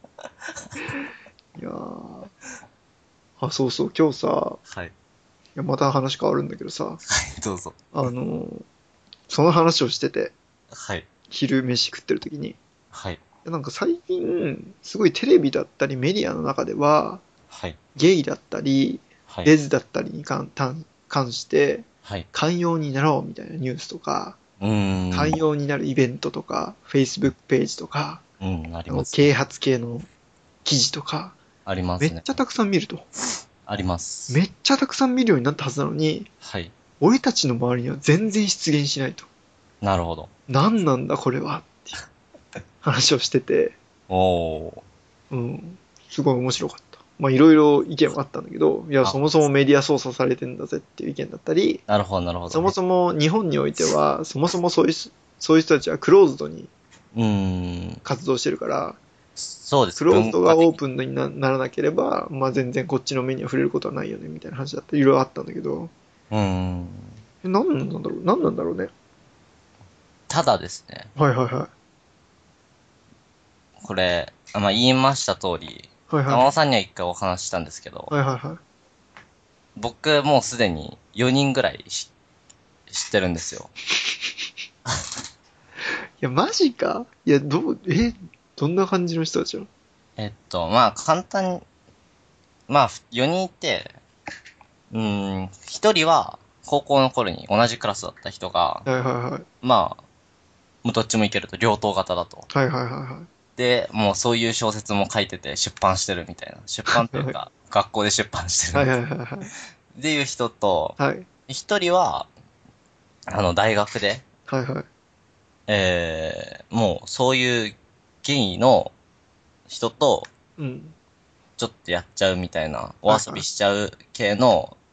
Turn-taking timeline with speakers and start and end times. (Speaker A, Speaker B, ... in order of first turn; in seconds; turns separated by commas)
Speaker A: 1.6-2.3, Speaker A: 3.4-4.6, Speaker B: 4.7-4.9, Speaker A: 5.6-7.0, Speaker B: 7.1-8.1, Speaker A: 7.9-8.6, Speaker A: 9.3-10.3, Speaker B: 10.7-11.1, Speaker A: 11.3-12.6, Speaker B: 12.9-13.2, Speaker A: 13.4-17.2, Speaker B: 17.5-17.8, Speaker A: 17.9-24.4, Speaker B: 24.6-25.4, Speaker A: 25.1-28.2, Speaker B: 28.4-29.3, Speaker A: 28.9-30.1, Speaker A: 30.6-31.4, Speaker B: 31.6-32.4, Speaker A: 32.0-33.1, Speaker B: 33.7-34.4, Speaker A: 34.3-36.3, Speaker B: 36.4-36.7, Speaker A: 37.0-39.3, Speaker B: 39.8-40.3, Speaker A: 40.5-42.0, Speaker A: 42.8-43.8, Speaker B: 44.1-44.8, Speaker A: 45.3-51.8, Speaker B: 51.9-52.7, Speaker A: 52.5-56.7, Speaker B: 57.1-58.0, Speaker A: 58.0-59.0, Speaker B: 59.4-60.8, Speaker A: 60.0-65.9, Speaker B: 66.3-67.2, Speaker A: 67.4-68.9, Speaker B: 70.3-71.1, Speaker A: 71.2-71.7, Speaker B: 73.8-78.1, Speaker A: 76.1-76.5, Speaker A: 78.1-78.6, Speaker B: 79.8-82.1, Speaker B: 82.9-83.7, Speaker A: 86.2-89.7, Speaker B: 90.2-91.6, Speaker B: 92.7-93.9, Speaker B: 94.9-98.8, Speaker A: 98.8-99.5, Speaker B: 99.6-100.0, Speaker B: 100.8-102.5, Speaker A: 102.5-103.3, Speaker B: 103.5-108.9, Speaker A: 106.9-107.3, Speaker A: 108.7-109.5, Speaker B: 109.9-112.3, Speaker A: 111.0-111.3, Speaker B: 113.3-114.2, Speaker A: 114.5-114.9, Speaker B: 115.7-118.9, Speaker B: 119.7-120.3, Speaker A: 120.6-120.9, Speaker B: 121.6-124.8, Speaker A: 123.1-123.4